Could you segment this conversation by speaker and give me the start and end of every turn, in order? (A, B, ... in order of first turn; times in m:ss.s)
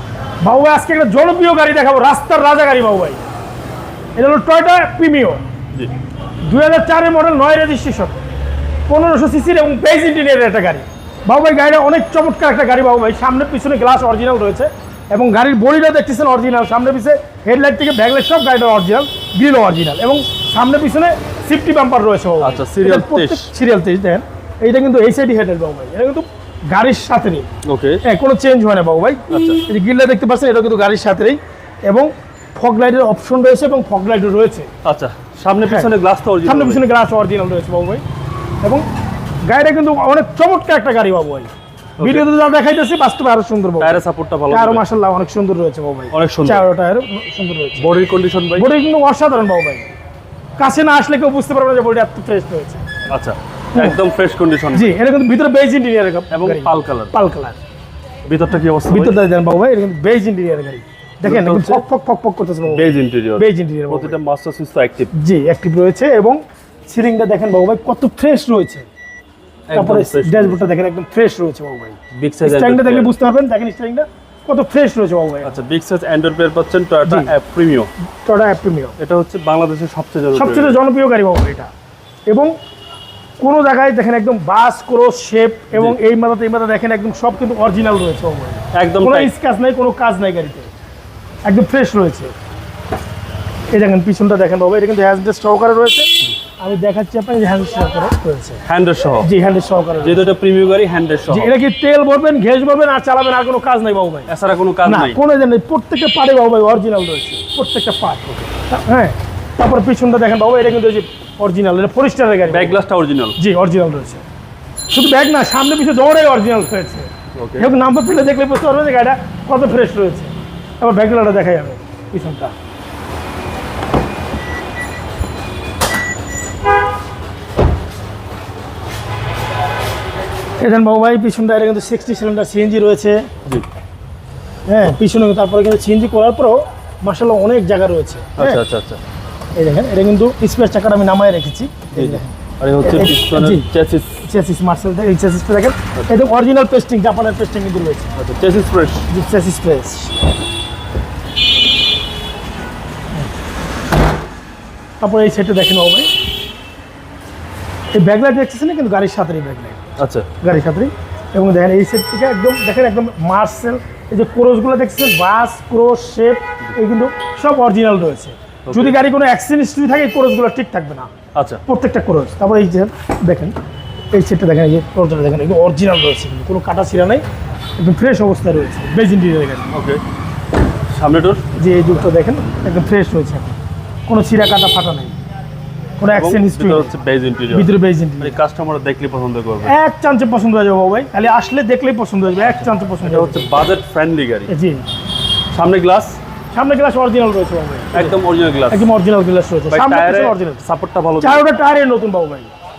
0:00.4-0:03.3 A
0:04.2-0:05.4 A
0:06.5-0:08.2 A
0:08.9-0:27.5 A
0:22.4-0:23.5 B
0:27.6-0:28.0 B
0:28.0-0:34.7 A
0:29.3-0:29.6 B
0:34.8-0:36.8 B
0:36.4-0:38.0 A
0:39.4-0:41.5 A
0:42.0-0:42.2 B
0:42.0-0:47.9 A
0:43.8-0:44.8 B
0:46.1-0:46.7 B
0:47.8-0:48.7 B
0:48.6-0:49.9 A
0:50.6-0:52.9 A
0:53.1-0:55.0 B
0:54.7-0:57.6 A
0:56.3-0:57.1 B
0:58.2-0:59.2 B
0:58.9-1:04.2 A
1:01.2-1:01.8 B
1:02.7-1:05.1 B
1:05.1-1:08.9 A
1:09.7-1:10.7 B
1:09.7-1:15.6 A
1:12.1-1:13.1 B
1:15.4-1:17.9 B
1:17.1-1:17.3 A
1:18.2-1:19.0 A
1:19.0-1:20.8 B
1:20.3-1:21.7 A
1:22.3-1:22.5 A
1:23.4-1:30.7 A
1:28.7-1:29.3 B
1:31.4-1:32.3 A
1:33.7-1:38.6 A
1:38.7-1:39.3 B
1:39.2-1:40.3 A
1:40.0-1:41.5 B
1:41.3-1:44.3 A
1:44.3-1:45.2 B
1:44.8-1:52.8 A
1:52.5-1:53.4 B
1:53.4-1:54.2 A
1:54.9-2:02.5 A
1:57.4-1:57.7 B
2:10.6-2:13.3 A
2:14.7-2:18.6 A
2:18.4-2:19.0 B
2:19.6-2:23.7 A
2:21.9-2:24.2 B
2:24.2-2:28.1 A
2:28.2-2:29.1 B
2:29.1-2:30.1 A
2:35.0-2:36.1 A
2:37.9-2:39.8 A
2:40.0-2:40.3 B
2:40.4-2:51.1 A
2:48.7-2:49.0 B
2:51.3-2:51.6 B
2:51.7-2:53.6 A
2:54.1-2:57.2 A
2:57.8-2:59.7 A
2:59.7-3:00.0 B
3:00.9-3:01.4 B
3:01.6-3:05.2 A
3:06.0-3:06.9 A
3:06.1-3:09.8 B
3:07.5-3:08.4 A
3:09.7-3:13.5 A
3:13.0-3:14.5 B
3:14.5-3:14.8 A
3:15.5-3:16.2 B
3:16.5-3:18.2 A
3:17.9-3:18.9 B
3:18.7-3:20.6 A
3:19.7-3:21.5 B
3:21.2-3:22.5 A